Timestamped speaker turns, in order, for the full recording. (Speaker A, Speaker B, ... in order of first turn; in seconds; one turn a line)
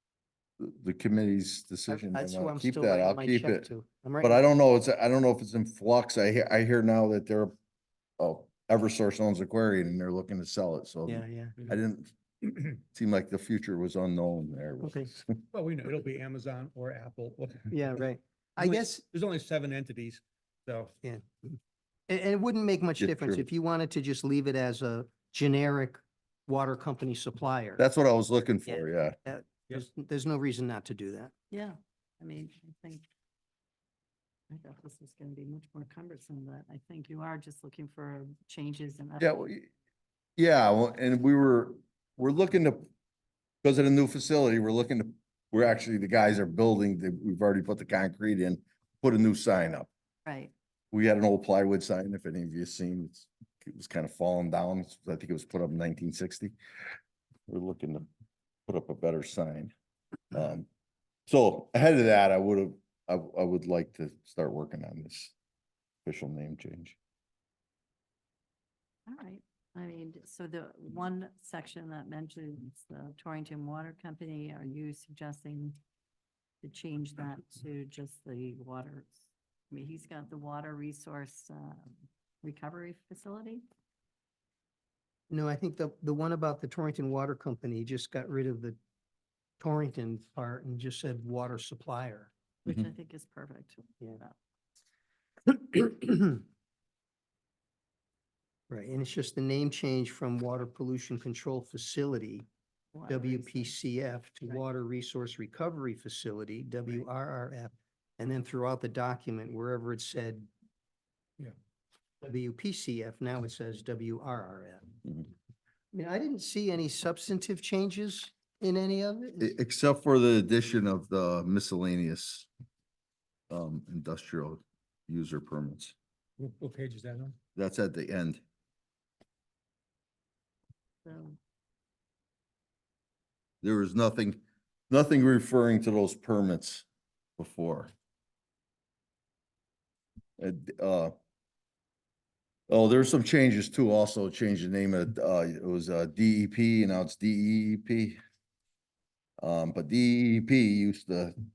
Speaker A: 0.6-3.7
Speaker B: 1.9-4.5
Speaker A: 4.2-7.5
Speaker A: 8.2-12.2
Speaker B: 11.1-11.6
Speaker A: 12.9-15.4
Speaker B: 14.8-15.1
Speaker C: 15.5-18.0
Speaker B: 17.7-19.0
Speaker C: 18.6-20.9
Speaker B: 21.0-21.6
Speaker B: 22.1-27.8
Speaker A: 23.0-23.4
Speaker A: 27.8-29.2
Speaker B: 28.7-31.3
Speaker D: 31.5-33.0
Speaker D: 34.5-39.4
Speaker A: 39.2-39.7
Speaker A: 40.4-42.9
Speaker A: 43.6-49.9
Speaker D: 50.2-50.5
Speaker A: 50.9-56.5
Speaker A: 57.5-58.1
Speaker A: 58.7-59.7
Speaker A: 60.3-60.7
Speaker A: 61.3-65.3
Speaker A: 66.1-67.0
Speaker D: 69.1-75.8
Speaker D: 76.6-83.6
Speaker B: 85.3-88.8
Speaker B: 89.6-92.3
Speaker D: 92.7-94.4
Speaker B: 95.5-96.4
Speaker B: 98.7-102.5
Speaker D: 102.9-103.7
Speaker B: 103.1-110.5
Speaker B: 112.2-114.8
Speaker B: 115.9-119.5
Speaker A: 119.4-122.5
Speaker A: 123.5-126.0
Speaker C: 126.4-127.4
Speaker A: 127.6-128.4
Speaker D: 131.0-131.4
Speaker A: 133.6-136.9
Speaker A: 137.4-137.9
Speaker A: 140.4-141.2
Speaker A: 142.7-148.2
Speaker A: 149.4-151.4